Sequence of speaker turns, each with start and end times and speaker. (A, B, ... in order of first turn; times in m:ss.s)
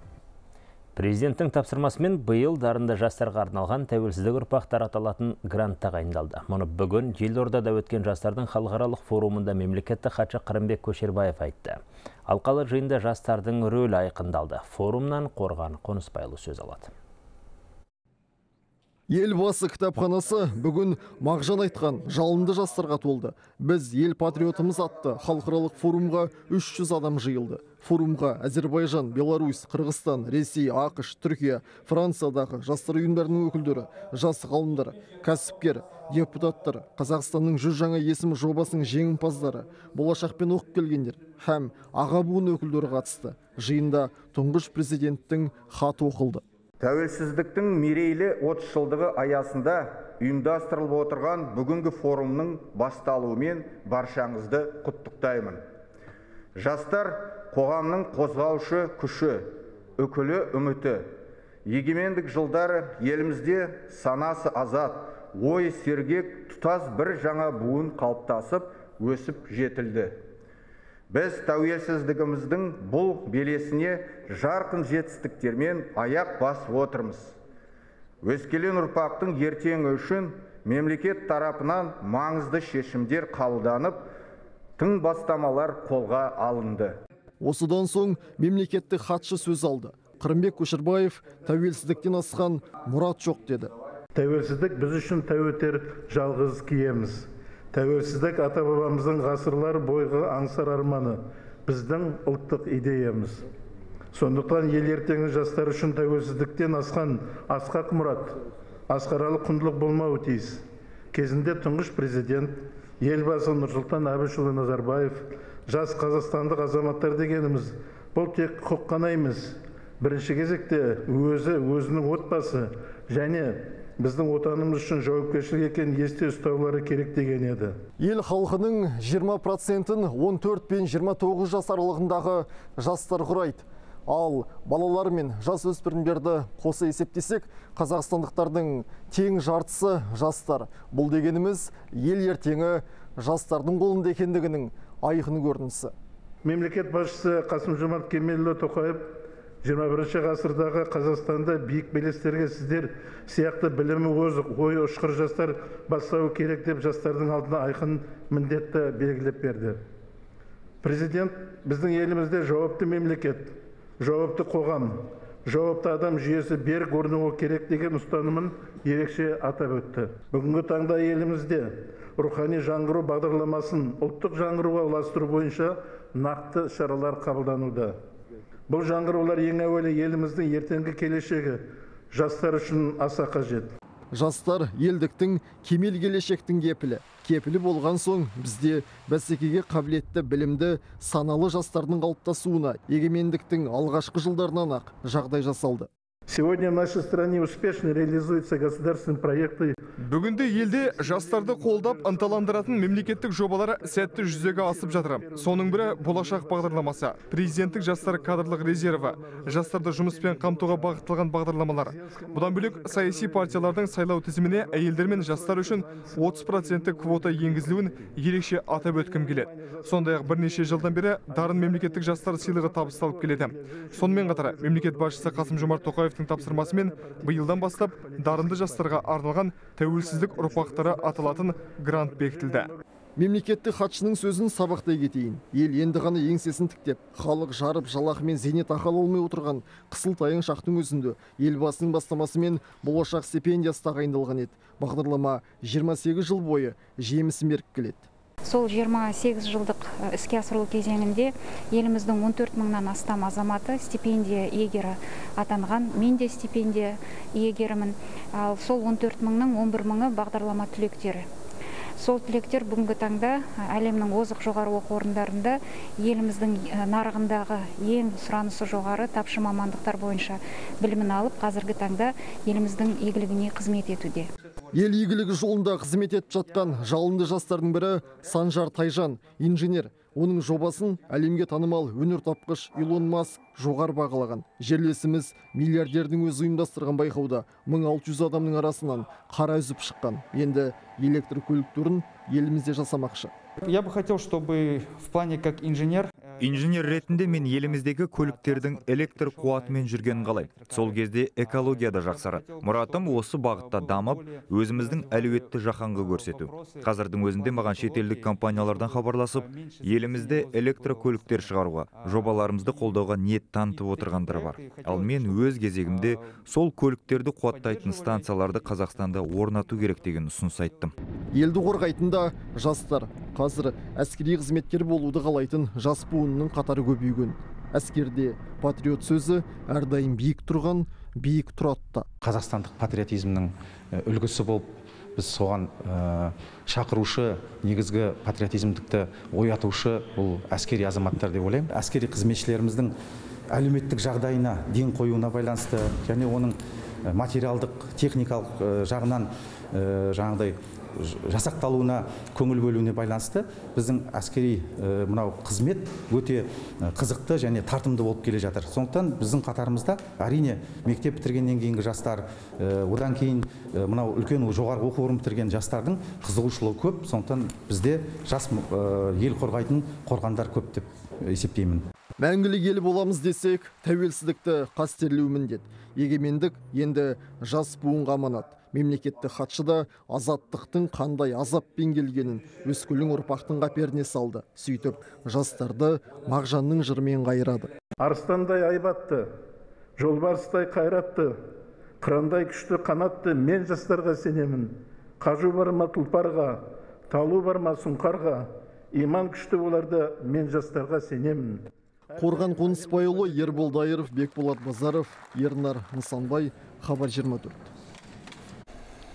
0:01.0-0:16.9 A
0:19.1-0:46.4 B
0:46.8-0:55.6 C
0:56.6-1:01.1 C
1:01.6-1:10.2 C
1:11.1-1:17.4 C
1:18.2-1:24.1 C
1:24.8-1:27.0 C
1:27.4-1:33.7 B
1:34.1-1:43.4 D
1:44.1-1:48.4 D
1:48.9-2:07.8 D
2:08.0-2:25.9 B
2:26.4-2:39.8 D
2:40.8-2:58.0 D
2:58.7-3:03.7 D
3:04.1-3:15.9 B
3:16.3-3:19.8 D
3:20.0-3:52.7 E
3:21.2-3:22.7 D
3:23.9-3:26.9 D
3:27.5-3:30.9 D
3:31.7-3:33.6 D
3:34.4-3:38.1 D
3:38.7-3:40.6 D
3:41.3-3:45.8 D
3:46.3-3:48.8 D
3:50.2-3:51.5 D
3:53.2-4:08.1 B
4:08.4-4:21.2 F
4:22.0-4:34.3 F
4:34.7-4:53.3 B
4:53.6-4:56.1 G
4:56.4-5:20.9 H
5:21.3-5:32.1 B
5:32.2-5:42.9 I
5:43.5-6:11.8 I
6:12.2-6:27.7 B
6:28.0-6:29.3 D
6:30.0-6:31.3 D
6:32.0-6:41.7 D
6:42.2-6:47.7 B
6:42.2-6:43.7 D